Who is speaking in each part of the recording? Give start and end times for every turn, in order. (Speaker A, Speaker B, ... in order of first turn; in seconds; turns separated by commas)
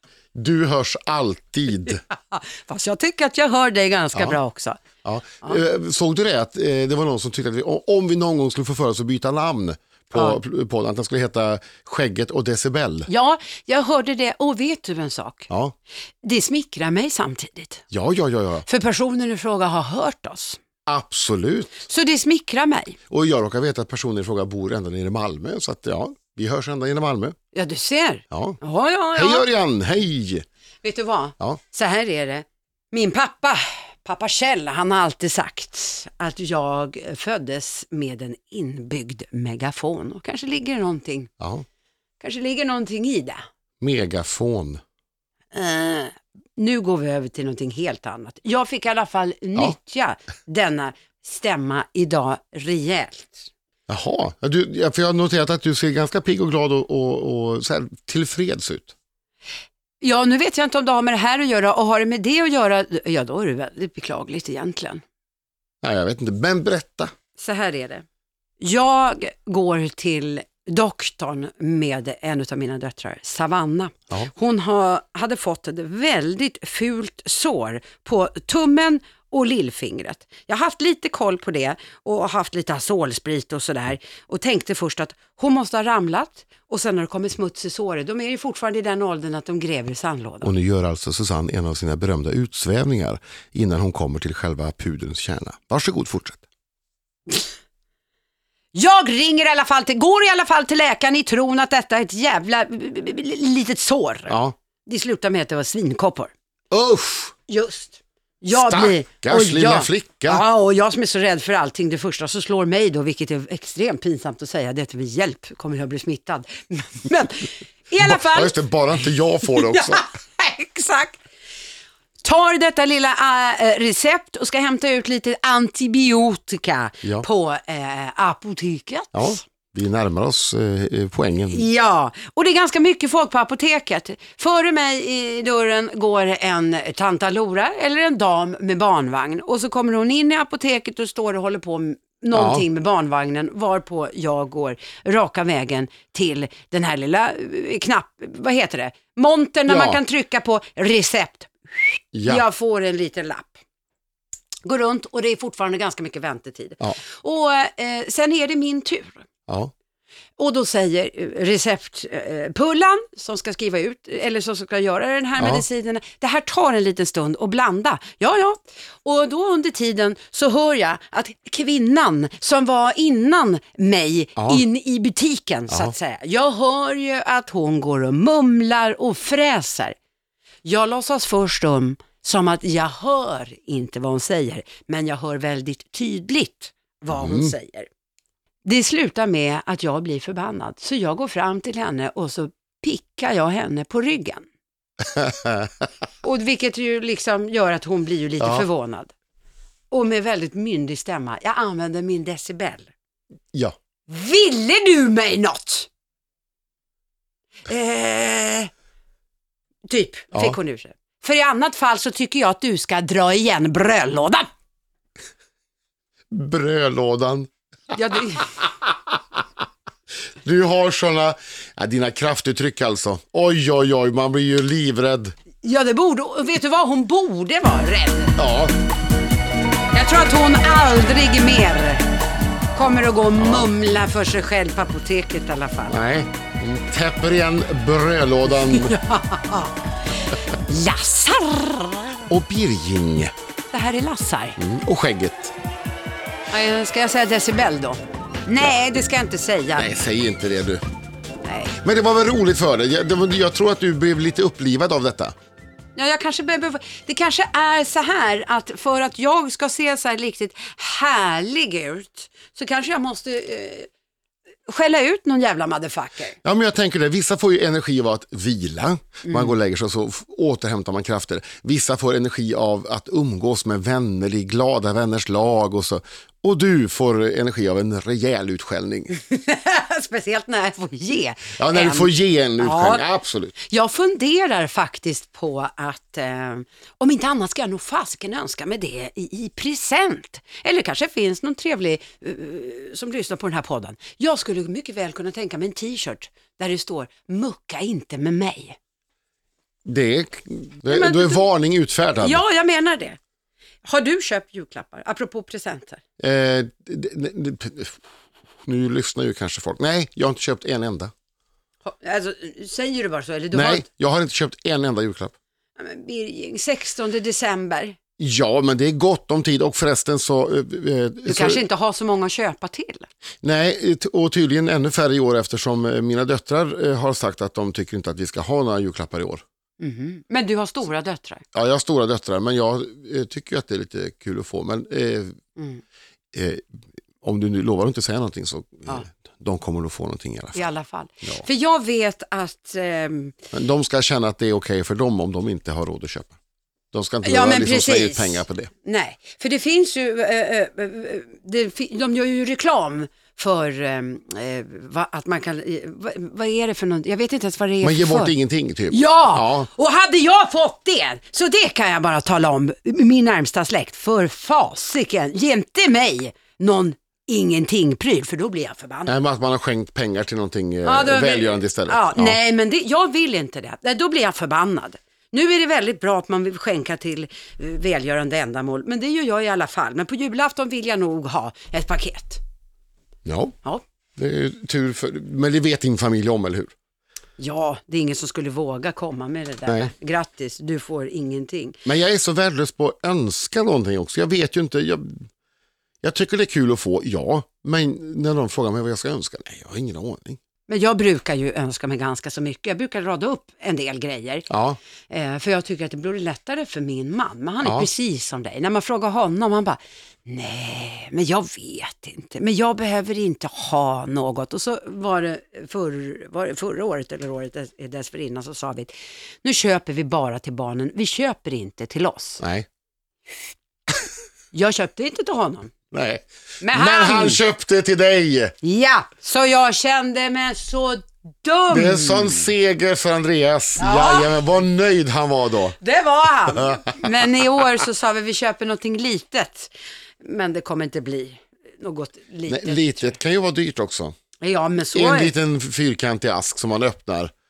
Speaker A: 0.3-2.0, Speaker B: 1.9-4.8, Speaker A: 5.0-13.1, Speaker B: 10.1-10.4, Speaker B: 13.1-15.5, Speaker A: 15.5-15.7, Speaker B: 16.2-17.9, Speaker A: 17.9-18.7, Speaker B: 18.7-20.6, Speaker A: 20.9-21.8, Speaker B: 21.9-23.0, Speaker A: 23.1-27.4, Speaker B: 27.5-29.5, Speaker A: 28.3-28.6, Speaker A: 29.1-30.4, Speaker B: 30.8-41.3, Speaker A: 41.4-41.6, Speaker B: 42.2-43.4, Speaker A: 43.8-44.8, Speaker B: 45.5-53.5, Speaker A: 53.9-58.9, Speaker B: 60.0-65.0, Speaker A: 65.8-67.1, Speaker B: 67.4-68.0, Speaker B: 68.6-90.5, Speaker A: 90.4-96.4, Speaker B: 98.7-104.3, Speaker A: 104.3-104.5, Speaker B: 104.9-106.3, Speaker A: 106.7-107.3, Speaker B: 107.5-118.6, Speaker A: 108.5-110.4, Speaker A: 118.0-120.0, Speaker B: 119.5-121.2, Speaker B: 122.2-129.4, Speaker A: 129.1-131.7, Speaker B: 131.5-153.6, Speaker A: 142.3-142.7, Speaker A: 149.7-150.0, Speaker A: 152.1-152.4, Speaker B: 154.7-159.2, Speaker B: 160.4-180.0, Speaker A: 165.4-165.6, Speaker A: 174.4-174.6, Speaker B: 180.7-187.9, Speaker A: 187.1-187.5, Speaker B: 188.6-194.5, Speaker A: 195.1-195.7, Speaker B: 196.2-199.1, Speaker A: 198.4-198.7, Speaker B: 199.9-202.9, Speaker B: 204.1-205.9, Speaker B: 207.7-208.7, Speaker B: 209.9-214.5, Speaker A: 216.3-217.5, Speaker B: 217.9-218.6, Speaker A: 218.6-219.2, Speaker A: 220.4-225.3, Speaker B: 225.6-228.4, Speaker A: 228.3-228.7, Speaker B: 229.9-232.1, Speaker B: 232.7-236.0, Speaker A: 233.4-233.7, Speaker A: 235.9-238.9, Speaker B: 238.5-242.3, Speaker A: 242.3-243.3, Speaker B: 243.7-244.6, Speaker A: 244.6-245.5, Speaker B: 246.5-249.9, Speaker A: 249.8-250.8, Speaker B: 251.4-251.8, Speaker A: 251.8-255.3, Speaker B: 256.0-263.9, Speaker B: 264.7-266.4, Speaker A: 266.4-279.1, Speaker B: 269.2-269.5, Speaker B: 279.1-283.0, Speaker A: 281.6-283.5, Speaker B: 283.6-298.8, Speaker A: 299.8-302.4, Speaker B: 300.9-301.4, Speaker B: 302.2-303.2, Speaker B: 303.8-306.0, Speaker A: 306.2-308.0, Speaker A: 308.6-311.1, Speaker B: 311.8-313.9, Speaker A: 313.5-315.3, Speaker B: 315.8-317.9, Speaker A: 318.2-321.6, Speaker B: 321.2-323.1, Speaker A: 323.4-329.4, Speaker B: 329.8-331.4, Speaker A: 331.5-335.4, Speaker B: 335.6-335.8, Speaker A: 336.3-336.6, Speaker A: 337.2-340.6, Speaker B: 340.5-343.4, Speaker A: 343.5-346.3, Speaker A: 346.9-348.7, Speaker B: 347.2-358.3, Speaker A: 357.8-359.7, Speaker B: 358.9-369.1, Speaker A: 369.1-372.4, Speaker B: 370.8-382.4, Speaker A: 383.2-383.6, Speaker A: 384.1-386.7, Speaker B: 387.4-391.8, Speaker A: 389.7-389.9, Speaker A: 391.8-395.2, Speaker A: 396.0-400.4, Speaker B: 400.7-404.4, Speaker A: 404.5-404.8, Speaker B: 405.1-418.9, Speaker A: 407.6-407.9, Speaker B: 419.4-422.4, Speaker A: 422.4-422.7, Speaker B: 424.5-425.7, Speaker A: 425.9-428.6, Speaker B: 426.6-427.4, Speaker B: 428.6-432.5, Speaker A: 431.7-435.8, Speaker B: 433.8-434.4, Speaker B: 435.8-443.2, Speaker A: 436.5-437.2, Speaker A: 442.5-444.1, Speaker B: 444.4-445.3, Speaker A: 444.9-447.3